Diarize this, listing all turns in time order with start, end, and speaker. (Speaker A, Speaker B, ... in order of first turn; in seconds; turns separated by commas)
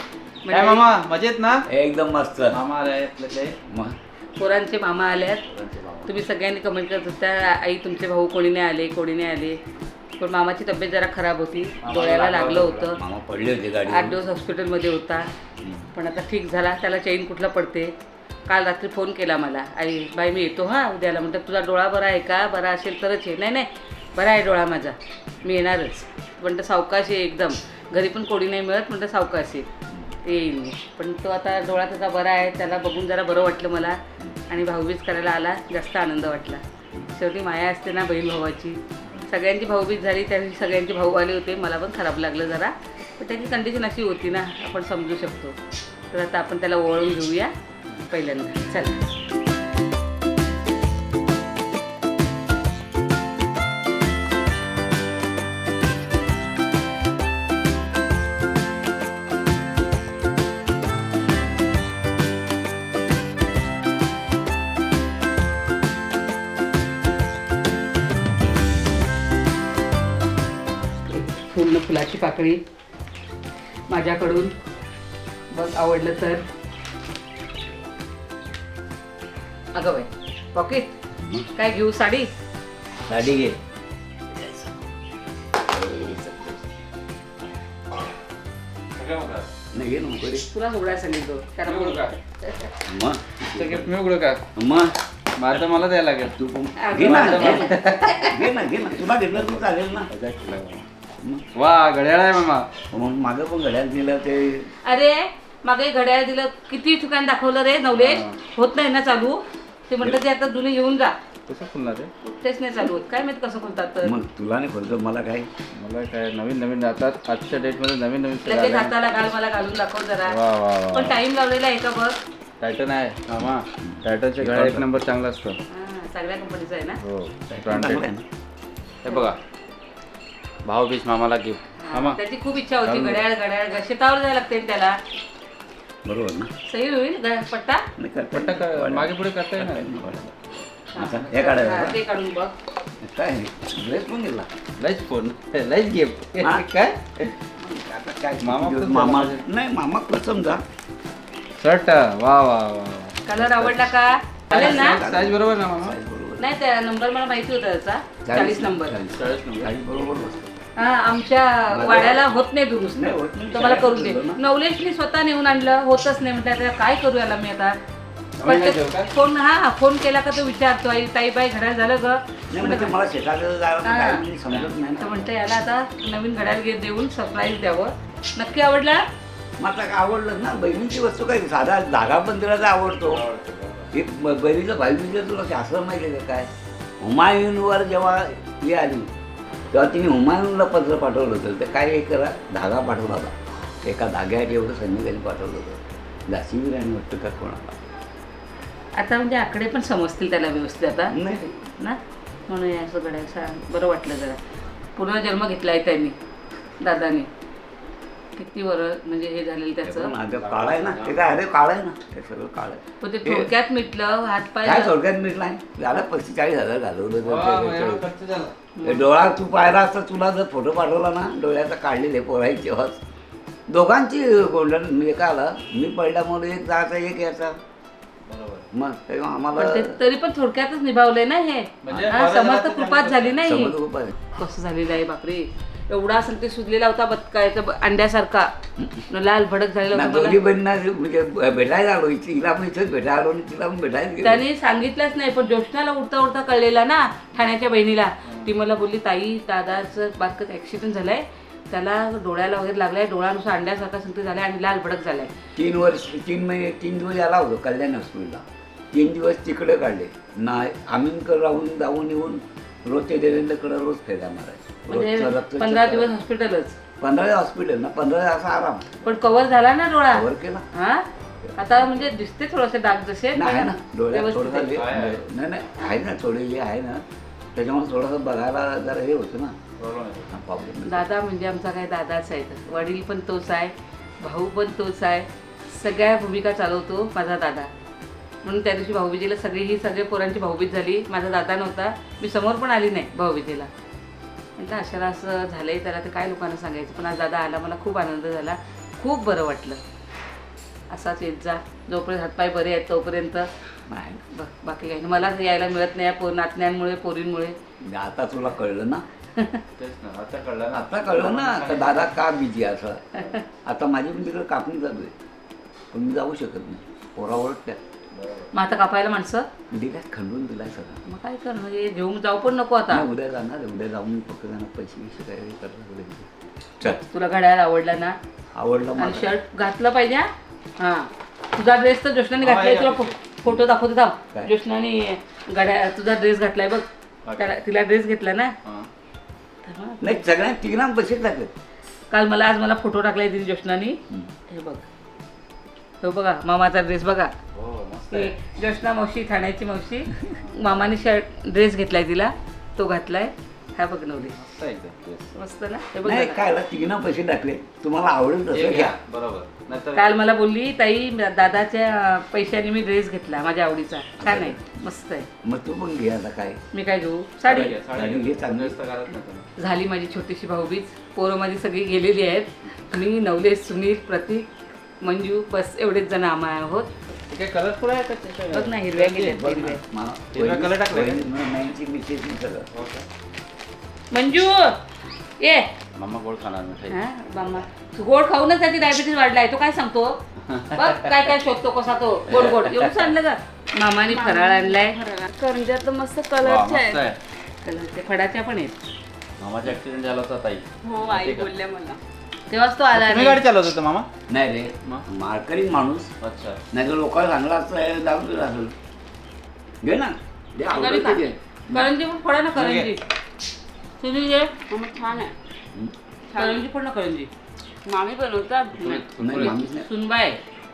Speaker A: 0.4-0.8, Speaker B: 0.5-1.7, Speaker C: 1.7-2.6, Speaker B: 2.5-3.5, Speaker C: 3.7-4.0, Speaker A: 4.4-5.4, Speaker B: 5.5-6.1, Speaker A: 6.0-9.6, Speaker A: 10.2-13.0, Speaker B: 11.8-12.9, Speaker C: 13.0-14.2, Speaker A: 13.9-15.3, Speaker C: 15.6-15.9, Speaker A: 15.9-17.9, Speaker A: 18.5-29.7, Speaker C: 29.9-30.2, Speaker A: 30.2-45.6, Speaker A: 46.1-47.5, Speaker A: 48.1-49.1, Speaker A: 71.0-72.6, Speaker A: 73.9-74.5, Speaker A: 75.5-76.4, Speaker A: 79.7-81.0, Speaker C: 81.2-81.5, Speaker A: 81.5-82.3, Speaker C: 83.1-83.6, Speaker C: 85.6-86.6, Speaker B: 89.0-89.5, Speaker C: 89.7-90.5, Speaker A: 90.5-92.7, Speaker B: 91.6-92.1, Speaker C: 92.8-93.9, Speaker B: 93.5-94.4, Speaker C: 94.5-95.0, Speaker B: 95.4-96.3, Speaker C: 96.3-100.1, Speaker A: 96.8-98.3, Speaker B: 97.0-98.1, Speaker B: 100.1-100.8, Speaker C: 101.2-101.5, Speaker B: 101.5-102.7, Speaker C: 102.9-104.7, Speaker A: 104.8-111.1, Speaker B: 107.9-108.4, Speaker B: 111.5-112.1, Speaker A: 112.2-114.1, Speaker C: 114.0-115.5, Speaker B: 115.7-118.9, Speaker A: 117.5-117.8, Speaker A: 118.4-120.4, Speaker B: 120.3-121.2, Speaker A: 120.9-122.2, Speaker B: 122.6-125.6, Speaker C: 123.8-125.0, Speaker A: 125.7-127.0, Speaker B: 127.0-128.0, Speaker C: 127.5-128.2, Speaker B: 129.0-129.4, Speaker A: 129.1-129.3, Speaker B: 130.6-132.2, Speaker A: 131.8-135.0, Speaker B: 132.8-133.2, Speaker C: 136.0-136.5, Speaker A: 136.7-137.9, Speaker C: 137.9-140.3, Speaker B: 138.3-139.9, Speaker A: 140.9-142.5, Speaker C: 140.9-142.0, Speaker C: 143.0-144.5, Speaker B: 144.8-147.3, Speaker C: 146.4-146.7, Speaker C: 147.4-150.6, Speaker B: 148.4-149.4, Speaker B: 151.6-153.8, Speaker A: 153.2-155.0, Speaker B: 154.5-155.9, Speaker C: 154.5-156.5, Speaker A: 156.4-159.0, Speaker C: 158.2-160.5, Speaker B: 159.2-159.7, Speaker A: 160.8-167.8, Speaker C: 161.7-164.4, Speaker B: 168.4-169.1, Speaker A: 168.4-172.9, Speaker C: 172.5-175.2, Speaker A: 173.8-174.2, Speaker A: 175.0-179.0, Speaker C: 179.6-183.2, Speaker B: 183.1-183.9, Speaker C: 183.9-189.1, Speaker C: 189.7-197.8, Speaker A: 198.9-201.2, Speaker C: 201.1-201.6, Speaker A: 201.7-204.4, Speaker A: 204.9-206.2, Speaker A: 206.8-207.3, Speaker A: 208.3-210.1, Speaker C: 209.8-213.5, Speaker B: 210.4-211.2, Speaker A: 213.0-214.9, Speaker C: 214.6-218.1, Speaker B: 217.2-218.5, Speaker A: 218.8-219.1, Speaker C: 218.8-223.0, Speaker C: 223.7-227.6, Speaker B: 228.2-228.7, Speaker C: 228.7-230.0, Speaker A: 229.6-233.8, Speaker B: 231.8-233.4, Speaker C: 231.9-232.2, Speaker C: 233.4-234.2, Speaker A: 234.3-238.5, Speaker C: 238.8-239.1, Speaker A: 239.1-240.4, Speaker C: 239.9-244.4, Speaker A: 244.2-255.3, Speaker C: 255.6-266.1, Speaker A: 264.9-266.8, Speaker C: 267.0-269.1, Speaker A: 269.0-274.8, Speaker C: 270.1-270.7, Speaker C: 271.4-272.1, Speaker C: 273.3-279.6, Speaker B: 274.7-275.2, Speaker B: 279.8-280.3, Speaker C: 280.3-281.1, Speaker A: 280.8-287.7, Speaker A: 288.4-293.7, Speaker A: 294.6-299.8, Speaker A: 300.9-303.5, Speaker C: 303.9-304.2, Speaker A: 304.3-307.6, Speaker C: 307.8-309.0, Speaker A: 309.4-309.6, Speaker B: 309.8-311.9, Speaker C: 310.7-315.1, Speaker C: 315.9-317.8, Speaker B: 318.1-318.5, Speaker A: 318.5-319.5, Speaker C: 319.7-321.0, Speaker A: 321.1-323.1, Speaker C: 322.9-326.3, Speaker A: 326.8-328.2, Speaker C: 328.5-329.4, Speaker A: 329.0-338.5, Speaker B: 332.4-333.2, Speaker B: 337.2-337.5, Speaker B: 338.6-338.9, Speaker A: 339.6-340.2, Speaker C: 340.0-341.5, Speaker A: 342.1-344.8, Speaker A: 346.0-347.3, Speaker B: 347.5-348.3, Speaker A: 348.1-354.4, Speaker B: 354.3-355.3, Speaker A: 355.3-356.4, Speaker C: 356.0-358.9, Speaker B: 358.5-360.1, Speaker A: 359.9-365.3, Speaker C: 364.2-364.6, Speaker C: 365.4-366.6, Speaker A: 366.7-367.8, Speaker C: 367.5-368.7, Speaker B: 367.5-369.5, Speaker A: 369.6-374.5, Speaker A: 375.0-376.9, Speaker B: 377.3-379.3, Speaker A: 378.5-379.8, Speaker C: 379.2-382.7, Speaker B: 380.3-381.2, Speaker B: 382.7-383.1, Speaker A: 384.1-384.8, Speaker A: 385.4-385.7, Speaker B: 385.9-387.0, Speaker A: 386.9-390.2, Speaker B: 390.4-391.2, Speaker A: 390.7-395.0, Speaker C: 392.4-392.7, Speaker D: 394.1-397.1, Speaker B: 396.4-397.2, Speaker A: 397.6-398.8, Speaker B: 399.4-401.5, Speaker D: 400.8-402.0, Speaker A: 402.5-403.4, Speaker B: 402.9-404.1, Speaker C: 404.3-406.1, Speaker B: 406.2-406.6, Speaker C: 406.7-408.7, Speaker C: 409.8-411.4, Speaker A: 410.7-413.0, Speaker B: 412.5-412.9, Speaker A: 414.0-414.6, Speaker D: 414.7-415.4, Speaker D: 416.3-416.6, Speaker A: 416.3-417.3, Speaker D: 417.8-419.6, Speaker B: 418.9-419.3, Speaker C: 419.2-419.9, Speaker A: 419.3-420.4